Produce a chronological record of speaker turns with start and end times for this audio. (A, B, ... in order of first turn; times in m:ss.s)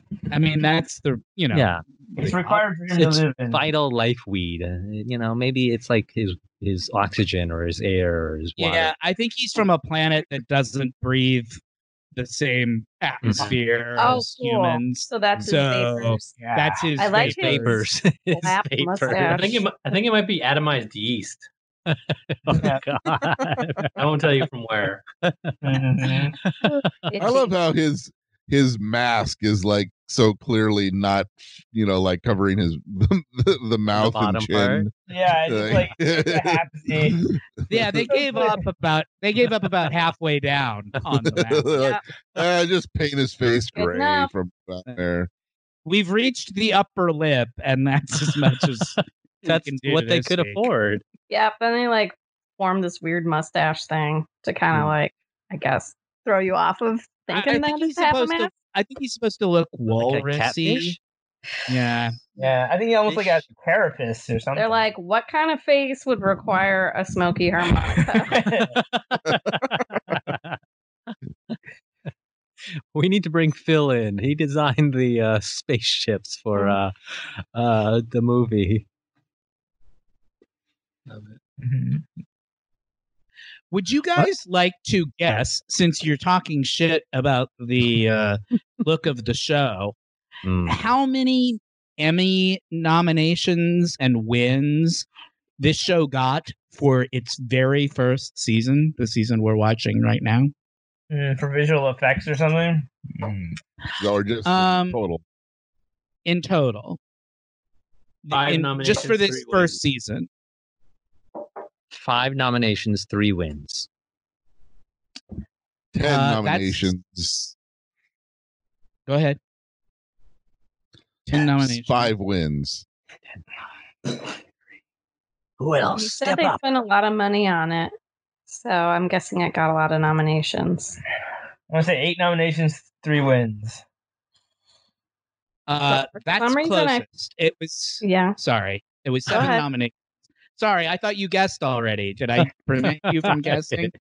0:00.3-0:01.7 A
0:01.5-0:09.0 B
0:02.2-0:03.6 C
0:08.6-0:11.6 A
0:12.2-0:17.8 A
0:13.2-0:13.6 B
0:13.3-0:13.6 D
0:14.0-0:16.4 E
0:16.4-0:16.9 C
0:17.0-0:19.5 E
0:17.0-0:19.6 B
0:19.1-0:19.5 A
0:19.1-0:21.5 D
0:21.9-0:24.0 B
0:22.6-0:22.8 C
0:24.0-0:25.0 D
0:25.2-0:26.9 B
0:25.6-0:26.4 C
0:27.1-0:27.5 E
0:27.2-0:34.9 F
0:33.9-0:34.9 B
0:35.1-0:37.3 C
0:35.4-0:37.4 F
0:37.7-0:42.0 A
0:38.1-0:38.6 C
0:41.2-0:45.3 F
0:41.8-0:42.0 E
0:43.8-0:44.3 E
0:45.8-0:50.7 A
0:48.2-0:51.0 B
0:51.3-0:58.5 E
0:57.3-1:01.0 A
0:59.9-1:01.0 B
1:01.7-1:02.3 A
1:02.4-1:04.9 C
1:03.1-1:03.4 B
1:04.6-1:08.4 E
1:08.3-1:08.7 C
1:08.7-1:10.6 B
1:12.9-1:16.9 B
1:17.6-1:18.9 B
1:21.1-1:21.4 D
1:21.6-1:22.0 C
1:23.7-1:30.0 A
1:30.4-1:30.9 B
1:30.7-1:35.1 A
1:35.6-1:40.5 A
1:41.1-1:43.6 C
1:44.0-1:45.2 F
1:44.4-1:45.0 A
1:46.3-1:47.0 A
1:48.2-1:50.3 A
1:48.3-1:49.8 D
1:51.9-1:53.9 B
1:55.9-1:57.5 F
1:56.0-1:56.9 A
1:59.1-1:59.4 A
2:01.3-2:02.1 A
2:01.3-2:02.8 F
2:05.6-2:06.6 B
2:05.9-2:07.9 E
2:08.5-2:11.0 E
2:11.7-2:13.8 C
2:15.7-2:19.9 A
2:15.9-2:17.0 E
2:18.0-2:18.4 E
2:19.3-2:19.6 E
2:20.6-2:23.9 A
2:22.4-2:23.9 B